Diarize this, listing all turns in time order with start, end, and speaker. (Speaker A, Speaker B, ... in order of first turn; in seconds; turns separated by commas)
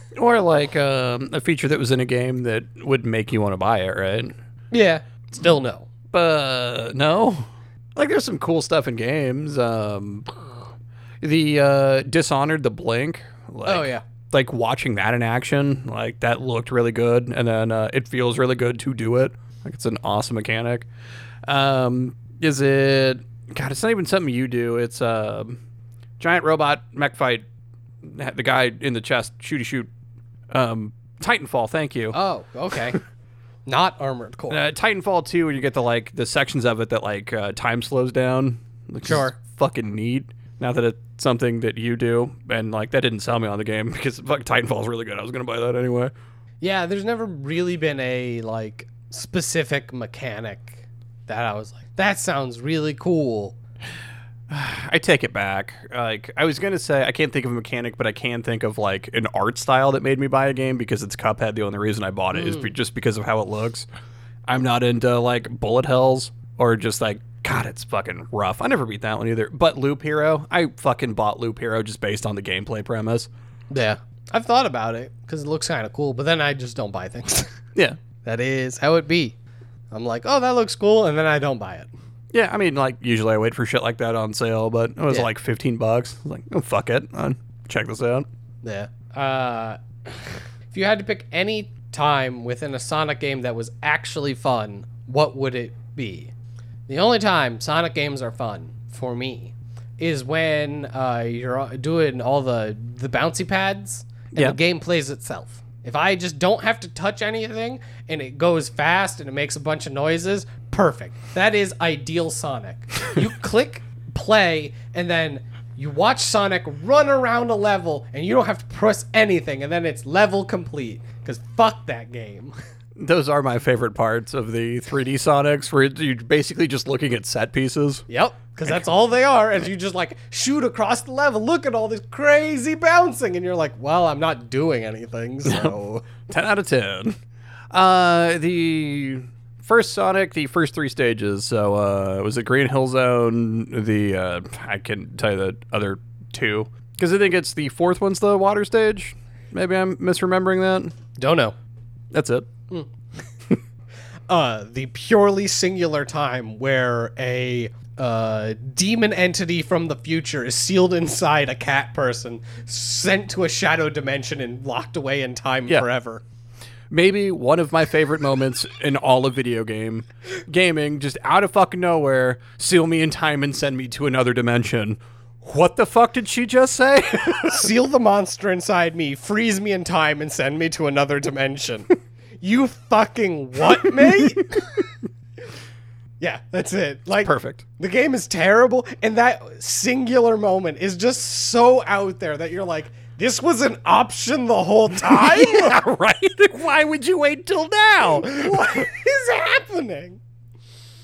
Speaker A: 0.1-4.3, Speaker B: 4.7-5.9, Speaker A: 6.1-10.4, Speaker A: 11.2-20.9, Speaker B: 13.7-14.0, Speaker A: 21.4-25.6, Speaker A: 26.2-27.4, Speaker A: 28.0-29.9, Speaker A: 30.5-32.2, Speaker B: 32.1-33.0, Speaker B: 33.6-34.6, Speaker A: 34.5-46.1, Speaker B: 39.0-39.4, Speaker B: 46.6-53.5, Speaker A: 54.5-63.9, Speaker B: 62.3-62.7, Speaker A: 64.5-73.3, Speaker B: 73.7-77.6, Speaker B: 78.2-79.3, Speaker B: 79.9-81.9, Speaker A: 82.3-88.2, Speaker B: 88.6-96.3, Speaker B: 96.9-122.5, Speaker A: 123.0-128.0, Speaker B: 128.1-136.1, Speaker A: 135.4-135.7, Speaker A: 136.3-137.2, Speaker A: 137.7-150.9, Speaker B: 151.2-151.5, Speaker A: 152.1-152.5, Speaker B: 154.3-166.2, Speaker A: 166.9-177.7, Speaker B: 177.4-184.8, Speaker B: 186.2-195.8, Speaker A: 187.2-187.6, Speaker A: 195.0-198.8, Speaker B: 198.1-200.2